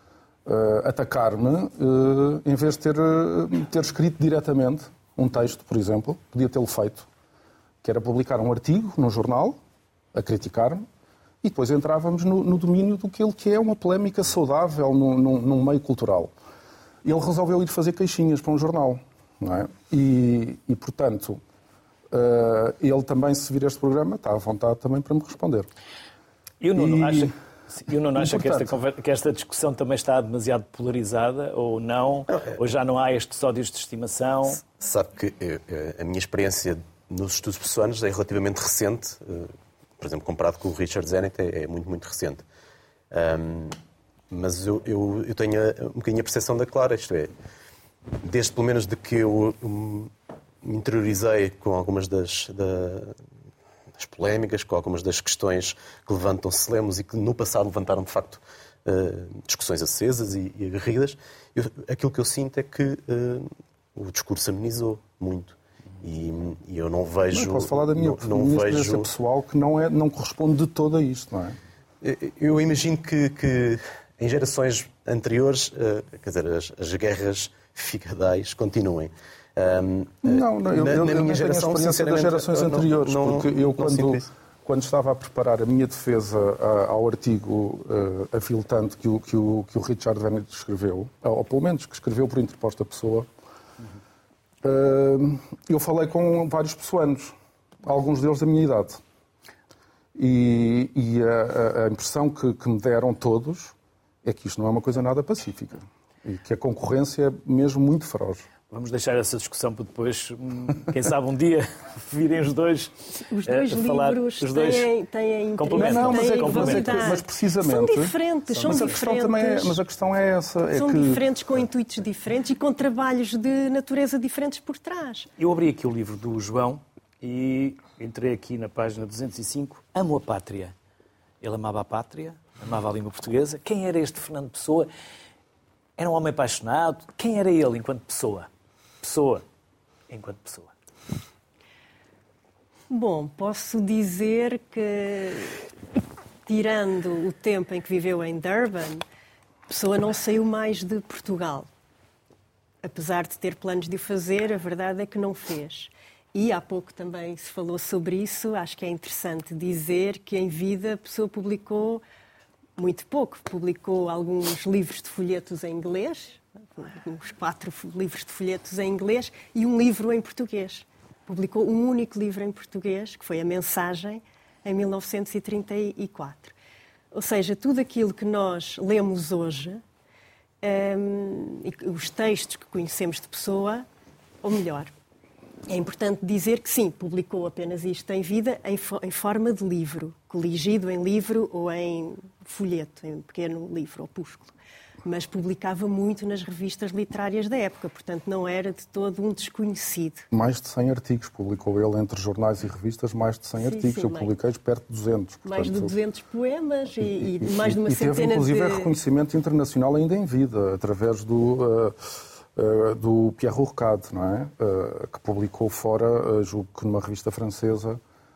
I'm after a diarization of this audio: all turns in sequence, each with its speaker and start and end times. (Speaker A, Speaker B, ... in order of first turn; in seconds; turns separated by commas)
Speaker A: 0.4-7.1, Speaker A: 7.8-9.6, Speaker A: 10.1-10.8, Speaker A: 11.4-16.3, Speaker A: 17.0-21.4, Speaker A: 22.1-25.7, Speaker B: 26.6-34.6, Speaker A: 26.8-27.3, Speaker A: 28.1-28.8, Speaker C: 34.7-42.4, Speaker C: 43.1-43.8, Speaker C: 44.3-47.3, Speaker C: 48.2-53.2, Speaker C: 54.0-69.1, Speaker A: 67.3-71.6, Speaker C: 72.0-84.3, Speaker A: 80.2-93.3, Speaker A: 94.6-99.0, Speaker A: 100.1-108.4, Speaker B: 108.7-114.9, Speaker D: 113.2-119.8, Speaker B: 115.6-117.2, Speaker A: 115.8-121.2, Speaker B: 118.6-118.9, Speaker D: 120.7-125.3, Speaker B: 125.4-130.7, Speaker B: 131.4-134.9, Speaker B: 136.0-138.5, Speaker B: 139.0-139.4, Speaker B: 140.1-140.7, Speaker D: 142.9-145.7, Speaker D: 146.4-149.0, Speaker D: 149.7-151.7, Speaker D: 152.8-162.0, Speaker D: 162.8-176.5, Speaker D: 177.1-179.8, Speaker D: 180.6-183.8, Speaker D: 184.4-184.9, Speaker D: 185.7-200.3, Speaker A: 200.3-205.9, Speaker D: 203.6-204.3, Speaker D: 205.4-208.9, Speaker A: 207.4-212.0, Speaker A: 212.5-218.0